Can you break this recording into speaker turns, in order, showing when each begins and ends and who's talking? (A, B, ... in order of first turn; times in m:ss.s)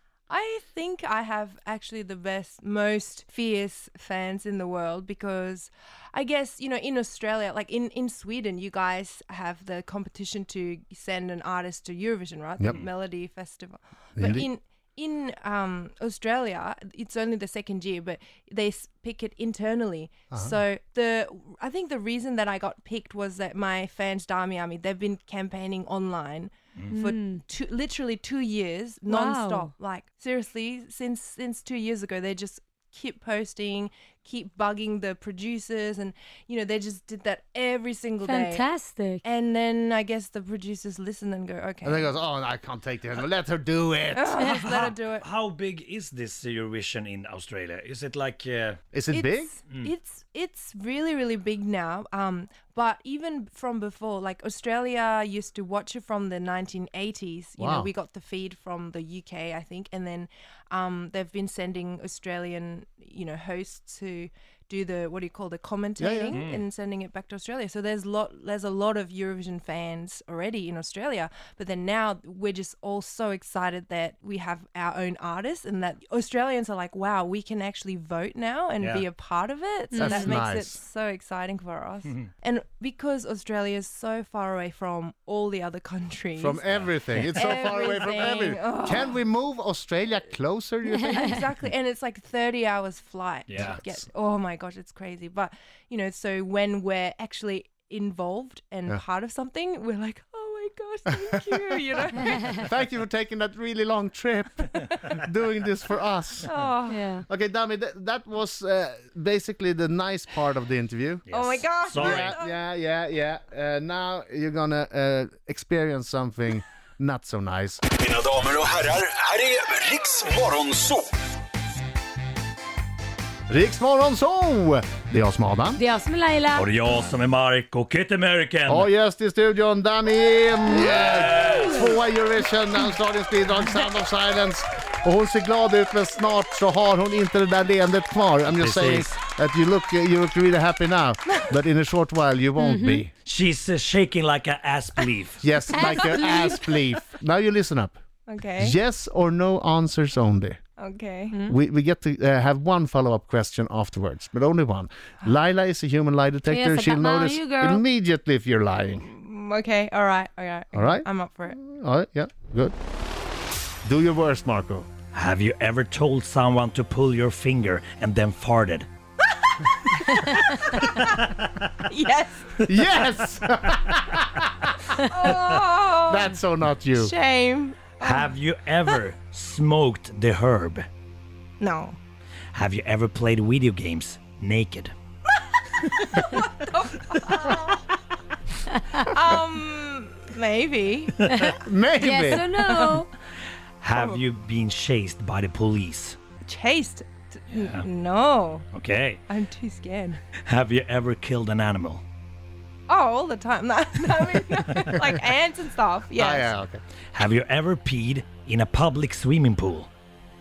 0:00.3-0:38.7 A
0:14.2-0:14.5 B
0:20.3-0:20.6 B
0:26.9-0:27.4 C
0:29.1-0:29.7 C
0:38.2-0:39.2 C
0:39.2-0:42.2 A
0:41.8-0:44.4 B
0:44.1-0:45.2 A
0:44.4-0:44.6 C
0:44.6-0:48.8 D
0:48.9-0:49.5 B
0:49.1-1:26.6 A
0:57.6-0:57.9 B
1:06.0-1:06.4 B
1:06.3-1:06.6 D
1:19.9-1:20.3 C
1:20.0-1:20.8 B
1:26.4-1:31.5 B
1:26.7-1:27.4 D
1:27.3-1:29.2 A
1:30.9-1:31.4 C
1:31.1-1:42.6 A
1:33.5-1:33.8 D
1:33.6-1:34.0 B
1:41.6-1:46.5 B
1:46.4-1:47.0 A
1:46.9-1:47.2 C
1:47.3-1:51.3 B
1:51.3-1:52.4 D
1:51.3-1:52.6 A
1:51.9-1:57.8 B
1:58.0-2:01.1 E
2:03.5-2:05.8 B
2:05.8-2:06.7 C
2:06.5-2:08.9 D
2:08.7-2:23.1 B
2:10.7-2:11.9 D
2:10.8-2:11.7 C
2:18.5-2:19.2 D
2:22.6-2:23.0 C
2:23.2-2:25.4 D
2:25.4-2:28.0 B
2:25.7-2:26.7 C
2:28.3-2:28.8 A
2:28.6-2:30.6 B
2:30.8-2:31.4 A
2:31.5-2:39.1 B
2:36.5-2:37.8 C
2:39.0-2:41.6 A
2:40.7-2:42.8 B
2:43.8-2:44.9 B
2:45.1-2:48.9 D
2:49.3-2:51.1 A
2:50.8-2:51.8 D
2:51.9-2:52.6 A
2:52.6-2:55.5 B
2:54.9-2:56.3 A
2:56.1-2:57.1 B
2:56.9-2:58.3 A
2:58.0-3:00.9 D
3:01.6-3:02.0 A
3:02.5-3:04.9 D
3:05.5-3:07.8 A
3:05.9-3:06.3 D
3:09.0-3:11.2 A
3:11.3-3:13.1 C
3:11.6-3:12.5 B
3:12.4-3:13.0 A
3:13.8-3:16.2 D
3:14.0-3:14.2 A
3:16.4-3:18.7 A
3:18.7-3:19.2 D
3:19.3-3:20.2 A
3:20.4-3:22.0 D
3:22.9-3:26.5 A
3:26.2-3:26.8 B
3:27.1-3:29.9 D